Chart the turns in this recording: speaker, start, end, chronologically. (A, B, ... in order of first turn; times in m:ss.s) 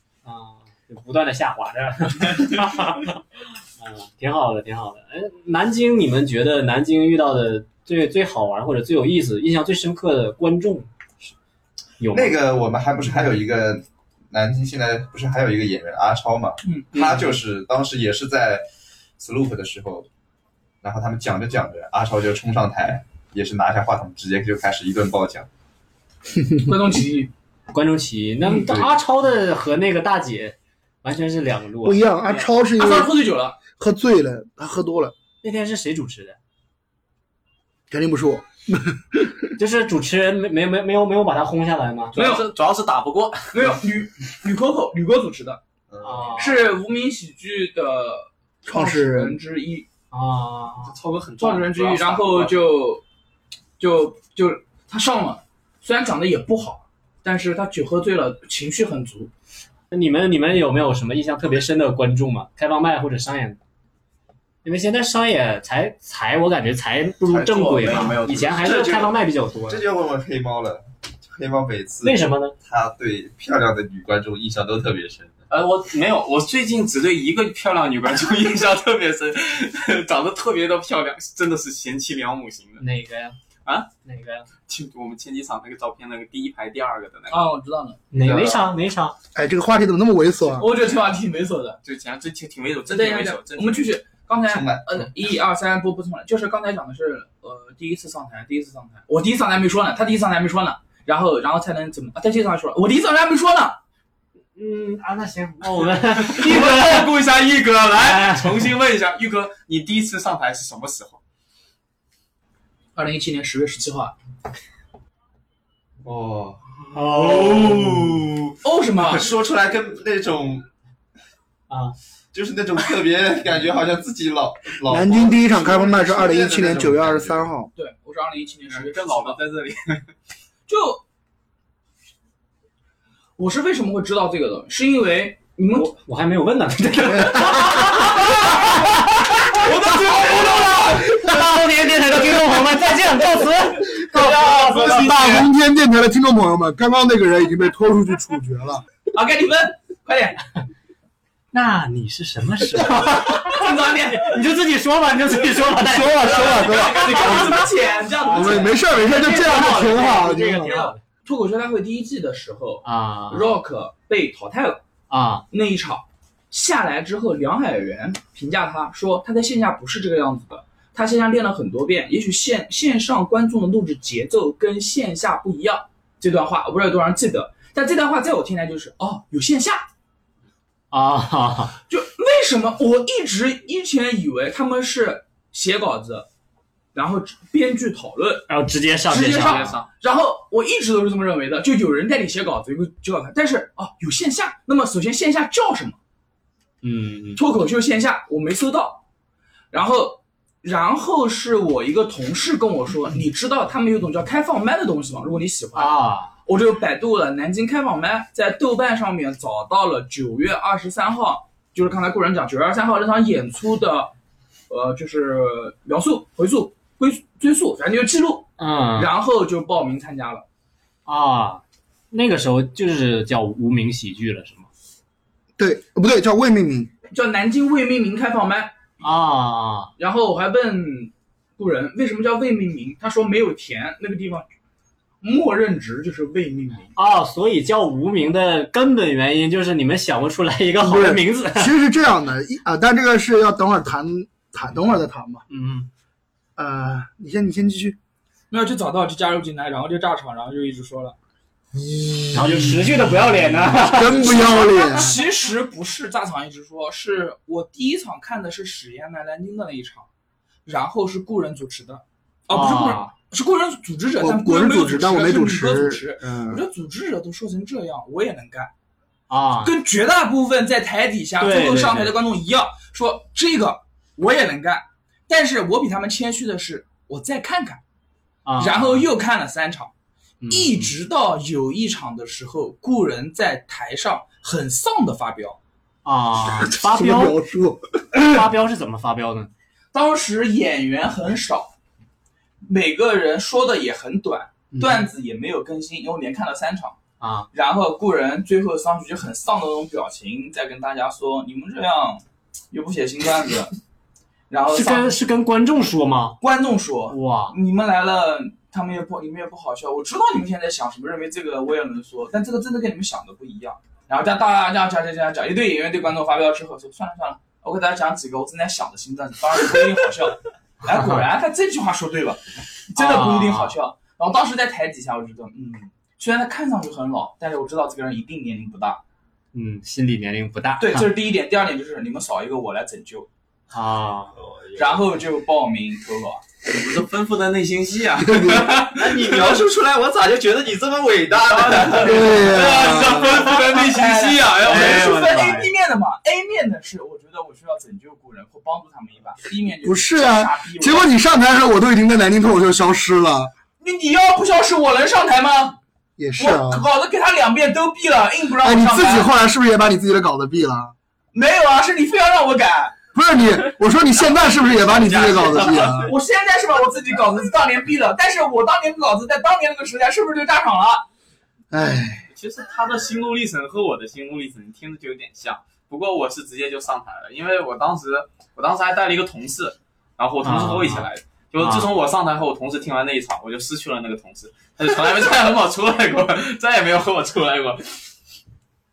0:00.2-0:03.2 A
0:03.8-0:11.3 A
0:12.0-0:12.4 A
0:12.1-0:18.6 B
0:16.6-0:17.2 C
0:19.2-0:20.1 B
0:20.8-0:25.5 B
0:26.5-0:27.3 C
0:27.7-0:32.0 A
0:31.8-0:33.1 D
0:32.7-0:33.6 C
0:33.7-0:35.1 D
0:35.4-0:36.4 A
0:37.9-0:39.5 D
0:39.6-0:42.2 A
0:42.1-0:42.5 C
0:42.1-0:43.7 E
0:43.5-0:45.6 C
0:45.9-0:46.4 B
0:46.0-0:46.8 A
0:46.4-0:49.9 C
0:48.7-0:49.4 D
0:50.1-0:50.9 A
0:50.8-0:52.6 E
0:51.4-0:53.0 C
0:53.8-0:59.3 C
0:59.9-1:03.6 A
1:04.6-1:09.8 A
1:07.3-1:15.4 B
1:07.7-1:08.8 E
1:12.0-1:12.5 A
1:15.5-1:22.8 E
1:22.8-1:23.4 A
1:23.6-1:23.9 E
1:24.0-1:24.5 A
1:24.7-1:27.5 E
1:27.3-1:28.0 C
1:28.1-1:29.2 A
1:28.2-1:28.6 E
1:29.3-1:30.7 D
1:30.6-1:31.8 C
1:31.8-1:34.0 E
1:32.9-1:43.8 C
1:34.4-1:35.0 B
1:44.6-1:47.1 A
1:46.2-1:51.2 E
1:48.0-1:48.7 A
1:53.0-1:54.1 C
1:56.0-2:00.7 B
1:56.9-1:58.2 A
1:58.6-1:59.3 C
2:01.7-2:01.9 A
2:02.3-2:07.5 B
2:04.9-2:07.7 D
2:07.7-2:09.4 C
2:08.6-2:10.1 E
2:10.7-2:11.0 C
2:13.4-2:15.9 C
2:15.7-2:19.6 A
2:17.1-2:17.9 D
2:19.5-2:21.2 C
2:19.6-2:21.0 E
2:21.0-2:24.5 A
2:24.1-2:25.4 E
2:24.1-2:28.8 D
2:29.1-2:30.4 C
2:31.5-2:37.6 A
2:33.0-2:34.4 C
2:35.8-2:37.6 D
2:36.2-2:44.8 C
2:38.2-2:41.0 A
2:38.3-2:40.8 D
2:42.8-2:43.6 A
2:45.1-2:45.4 A
2:45.5-2:59.8 C
3:00.9-3:01.7 A
3:01.9-3:06.3 C
3:06.9-3:08.5 C
3:08.5-3:09.8 A
3:09.1-3:16.0 C
3:09.2-3:09.9 E
3:16.8-3:17.4 A
3:17.4-3:19.0 C
3:19.7-3:34.1 C
3:25.7-3:26.3 A
3:34.7-3:40.4 C
3:38.6-3:39.1 A
3:41.0-3:44.7 A
3:45.6-3:46.9 D
3:47.1-3:48.8 C
3:49.0-3:49.9 A
3:50.0-3:54.4 C
3:55.2-3:56.9 C
3:57.0-4:01.7 A
4:00.8-4:05.4 D
4:05.5-4:05.9 A
4:06.6-4:08.0 D
4:08.5-4:11.1 C
4:11.7-4:13.0 D
4:12.3-4:14.6 A
4:13.8-4:15.2 D
4:14.1-4:20.1 C
4:20.6-4:28.7 C
4:22.5-4:23.1 A
4:24.2-4:26.6 D
4:29.3-4:29.7 A
4:29.6-4:37.8 C
4:31.4-4:32.2 A
4:38.4-4:39.1 A
4:38.6-4:39.9 C
4:40.4-4:40.9 A
4:40.5-4:45.6 C
4:46.0-4:47.4 A
4:46.5-4:48.4 D
4:48.2-4:49.5 A
4:49.9-4:51.7 C
4:52.6-4:57.0 C
4:54.8-4:55.1 A
4:57.2-4:57.5 A
4:57.5-5:03.7 C
5:04.5-5:05.1 C
5:04.7-5:06.4 A
5:06.4-5:29.0 C
5:07.1-5:07.6 A
5:20.9-5:21.2 A
5:23.0-5:23.7 A
5:29.5-5:31.1 A
5:30.8-5:33.3 C
5:33.7-5:34.3 A
5:34.8-5:36.4 C
5:36.6-5:39.6 E
5:38.2-5:38.7 D
5:38.9-5:42.5 B
5:41.4-5:45.4 E
5:42.0-5:43.3 D
5:42.8-5:51.1 C
5:44.7-5:45.7 A
5:49.8-5:53.5 D
5:53.8-5:55.8 C
5:56.2-5:56.8 D
5:56.4-5:59.3 C
5:58.6-6:00.9 D
6:01.3-6:03.0 C
6:03.1-6:06.1 D
6:04.5-6:06.1 E
6:05.9-6:11.0 C
6:11.7-6:12.3 D
6:12.3-6:28.0 E
6:20.4-6:21.1 A
6:21.6-6:21.9 A